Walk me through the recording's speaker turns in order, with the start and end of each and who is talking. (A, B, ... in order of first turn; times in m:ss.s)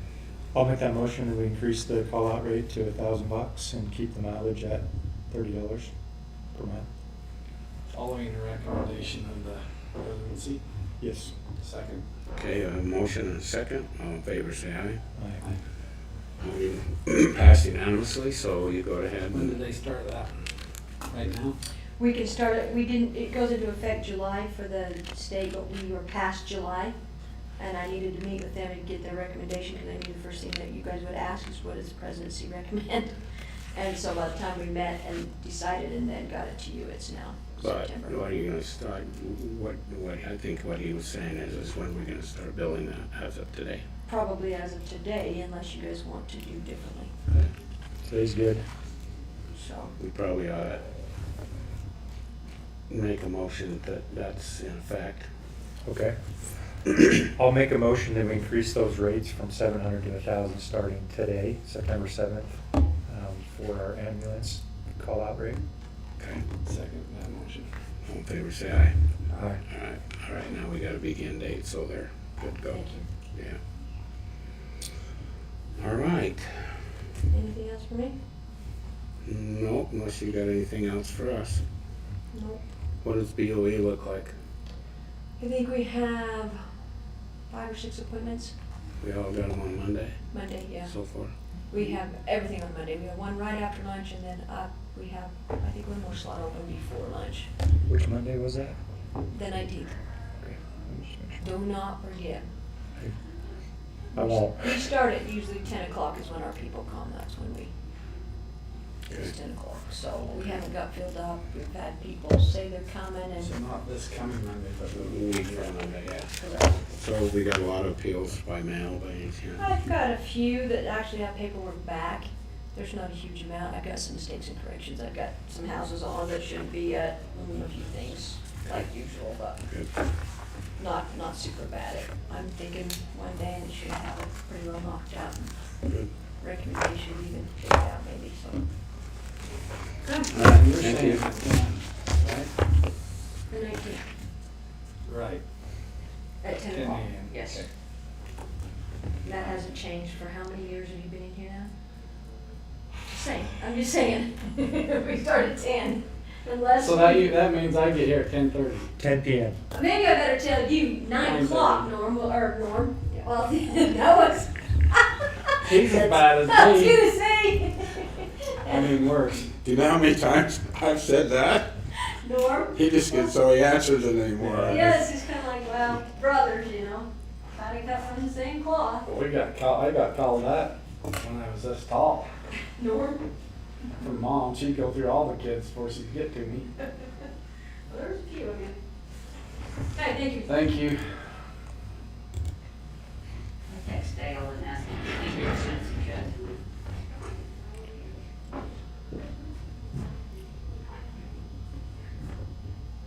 0:00.5-0:05.9 A
0:06.5-0:06.9 A
0:07.9-0:10.6 B
0:11.0-0:11.3 A
0:11.6-0:12.0 B
0:12.3-0:15.0 C
0:15.1-0:15.4 A
0:16.4-0:19.6 C
0:19.3-0:20.3 B
0:21.1-0:21.6 B
0:22.0-0:27.0 D
0:27.6-0:33.2 D
0:33.7-0:38.2 D
0:37.6-0:43.8 C
0:44.0-0:47.1 D
0:48.0-0:48.6 A
0:49.5-0:49.9 D
0:50.0-0:50.8 C
0:52.9-0:55.3 C
0:55.8-0:56.2 A
0:56.9-1:05.6 A
1:06.2-1:06.4 C
1:06.6-1:07.7 B
1:08.1-1:09.0 C
1:09.3-1:09.6 A
1:09.7-1:13.6 C
1:12.7-1:13.1 D
1:15.8-1:16.8 C
1:17.3-1:18.2 D
1:19.2-1:21.6 C
1:22.3-1:22.6 D
1:23.0-1:24.3 C
1:25.4-1:26.6 D
1:27.5-1:28.5 D
1:29.0-1:30.2 C
1:30.3-1:31.0 D
1:30.8-1:31.3 C
1:31.7-1:37.5 D
1:37.9-1:38.8 A
1:39.3-1:40.0 D
1:40.4-1:41.4 A
1:41.4-1:42.5 D
1:44.1-1:47.7 D
1:44.1-1:44.6 A
1:49.1-1:53.5 D
1:53.4-1:55.5 B
1:54.9-1:56.3 C
1:56.4-1:56.8 D
1:56.9-1:59.7 C
1:59.6-2:09.7 D
2:10.8-2:15.5 D
2:16.4-2:18.6 D
2:20.0-2:20.3 D
2:20.3-2:21.3 C
2:20.5-2:22.5 B
2:23.5-2:24.0 D
2:25.0-2:25.4 B
2:26.4-2:27.6 D
2:26.7-2:27.7 B
2:29.2-2:31.7 D
2:33.1-2:37.4 D
2:36.8-2:38.9 B
2:39.0-2:39.6 A
2:39.7-2:49.0 D
2:41.2-2:41.9 B
2:45.6-2:47.0 B
2:48.7-2:49.5 B
2:49.6-2:51.7 C
2:52.0-2:53.3 D
2:52.7-2:55.0 C
2:54.4-2:55.0 B
2:54.7-2:59.1 D
2:59.0-3:02.3 B
3:02.8-3:03.2 D
3:04.0-3:06.7 B
3:07.9-3:08.8 D
3:09.9-3:10.7 D
3:10.5-3:11.0 B
3:13.7-3:16.3 E